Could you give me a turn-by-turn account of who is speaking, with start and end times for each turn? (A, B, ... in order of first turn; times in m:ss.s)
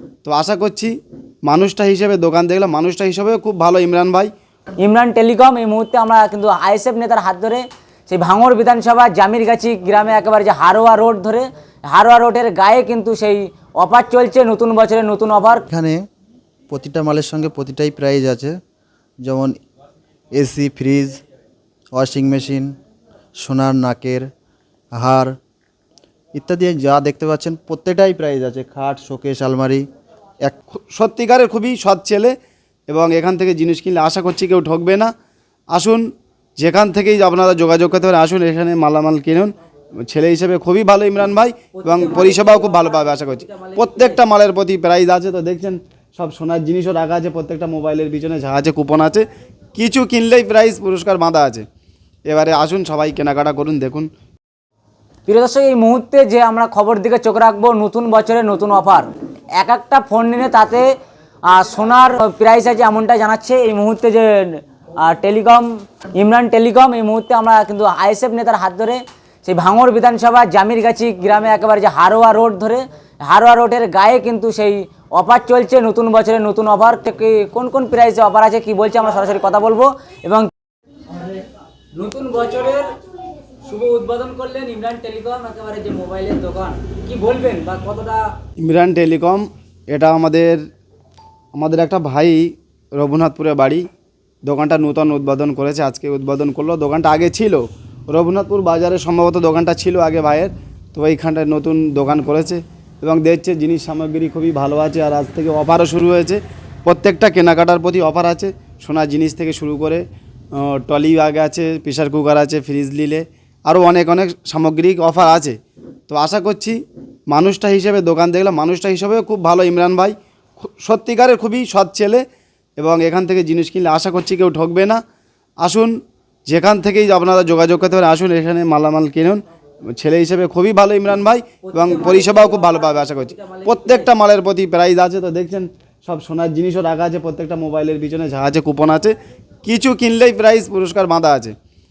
0:00.2-0:04.3 A
0:04.8-0:15.7 B
0:15.7-0:16.0 C
0:16.7-0:18.6 C
0:19.2-0:19.6 C
0:20.3-0:21.2 C
0:21.9-0:22.7 C
0:23.4-0:24.3 C
0:25.0-0:25.4 C
0:26.4-0:29.8 C
0:30.7-0:32.4 A
0:32.9-0:35.1 A
0:35.7-0:51.6 A
0:41.7-0:44.2 B
0:52.3-0:54.1 A
0:55.3-1:00.9 B
1:01.5-1:20.5 B
1:21.1-1:21.4 B
1:21.9-1:22.9 B
1:23.6-1:28.3 B
1:28.6-1:30.6 A
1:31.6-1:33.9 A
1:34.4-1:55.6 A
1:56.1-1:56.8 A
1:57.3-2:02.2 A
2:02.8-2:05.0 A
2:05.6-2:21.6 A
2:11.6-2:14.1 B